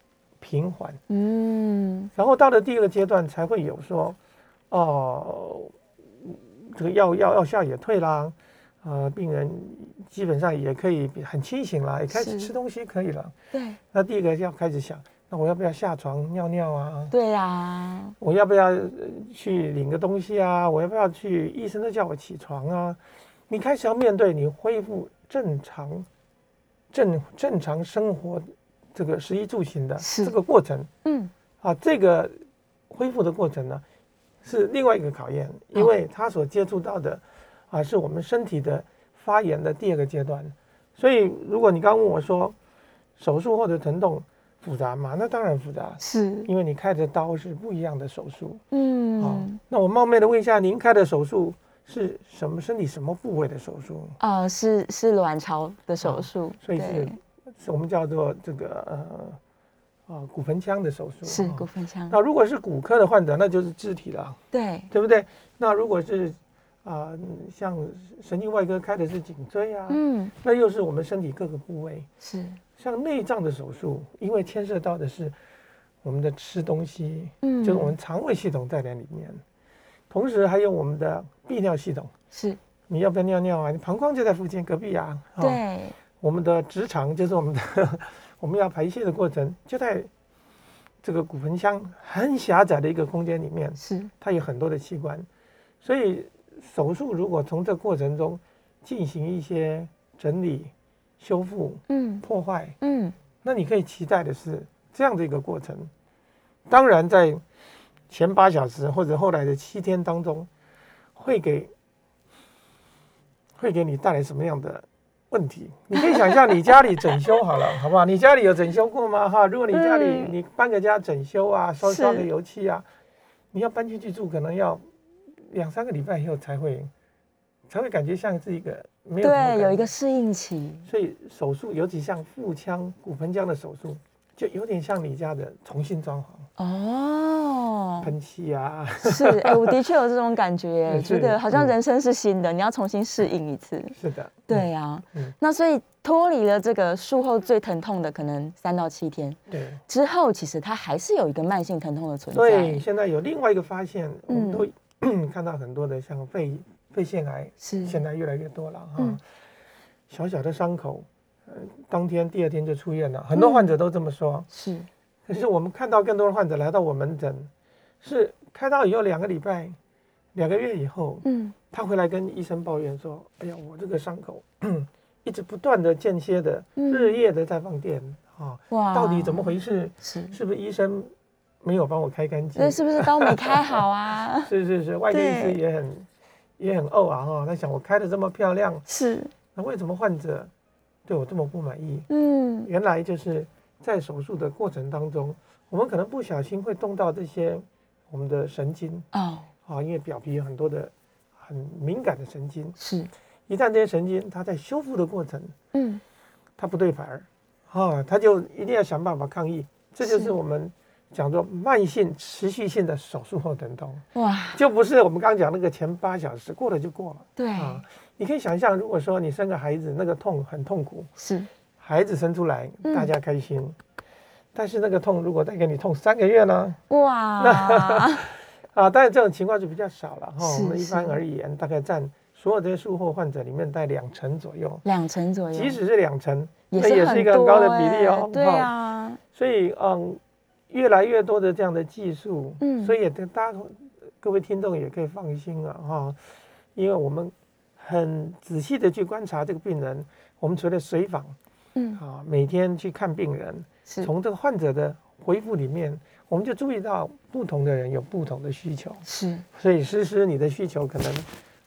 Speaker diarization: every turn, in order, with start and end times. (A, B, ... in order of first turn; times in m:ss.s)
0:00.4-0:01.0 A
0:01.1-0:02.1 B
0:02.2-0:04.2 A
0:04.7-0:13.3 A
0:12.1-0:12.5 B
0:13.5-0:13.8 B
0:13.9-0:17.1 A
0:17.1-0:18.2 B
0:18.2-0:26.1 A
0:26.9-0:30.9 A
0:30.0-0:30.3 B
0:31.0-0:31.3 B
0:31.6-0:32.4 A
0:32.9-0:33.8 A
0:34.4-0:42.5 A
0:43.2-0:48.6 A
0:46.0-0:46.5 B
0:48.7-0:49.6 B
0:49.2-0:54.2 A
0:54.2-0:57.2 B
0:56.0-0:59.4 A
1:00.1-1:04.4 A
1:01.2-1:02.2 B
1:04.5-1:04.9 B
1:04.9-1:12.1 A
1:09.9-1:10.3 B
1:12.2-1:12.6 B
1:12.8-1:15.3 A
1:16.0-1:19.4 A
1:17.4-1:18.0 B
1:20.1-1:22.1 A
1:22.3-1:22.6 B
1:22.9-1:25.6 A
1:25.4-1:26.0 B
1:26.2-1:30.1 A
1:31.0-1:35.3 A
1:33.8-1:34.1 B
1:35.8-1:42.8 A
1:41.9-1:42.2 B
1:42.8-1:43.1 B
1:43.4-1:45.9 A
1:46.7-1:47.4 A
1:48.1-1:50.5 A
1:51.1-1:51.7 A
1:53.6-2:02.8 A
1:55.9-1:56.5 B
1:59.7-2:00.3 B
2:01.8-2:02.3 B
2:03.5-2:04.8 A
2:05.5-2:06.9 A
2:07.7-2:09.9 A
2:09.2-2:10.9 B
2:10.8-2:16.4 A
2:16.6-2:18.1 B
2:18.0-2:19.8 A
2:19.0-2:23.9 B
2:20.8-2:21.7 A
2:23.9-2:25.3 A
2:24.5-2:32.8 B
2:29.5-2:29.8 A
2:32.3-2:39.2 A
2:34.3-2:34.6 B
2:37.6-2:38.0 B
2:40.1-2:44.5 A
2:43.3-2:43.7 B
2:44.5-2:44.9 B
2:45.3-2:47.5 A
2:48.0-2:49.8 A
2:50.3-3:01.1 A
2:51.2-2:51.5 B
2:56.8-2:57.2 B
2:58.7-3:00.4 B
3:01.6-3:03.8 A
3:02.6-3:04.5 B
3:04.4-3:06.1 A
3:05.1-3:05.6 B
3:06.6-3:08.8 A
3:08.9-3:09.3 B
3:09.5-3:10.5 A
3:11.1-3:12.1 A
3:12.1-3:12.7 B
3:12.6-3:19.1 A
3:19.1-3:19.5 B
3:19.6-3:22.8 A
3:22.8-3:23.1 B
3:23.5-3:25.5 A
3:25.7-3:26.0 B
3:26.6-3:34.0 A
3:30.0-3:30.3 B
3:34.1-3:34.6 B
3:34.5-3:41.1 A
3:37.4-3:37.8 B
3:41.2-3:41.5 B
3:41.8-3:43.8 A
3:42.8-3:43.1 B
3:44.5-3:46.8 A
3:46.9-3:48.3 B
3:47.4-3:54.8 A
3:50.4-3:51.2 B
3:54.8-3:55.8 B
3:55.5-3:58.7 A
3:56.7-3:59.2 B
3:59.3-4:06.2 A
4:02.6-4:02.9 B
4:06.7-4:11.4 A
4:12.0-4:21.3 A
4:19.0-4:19.4 B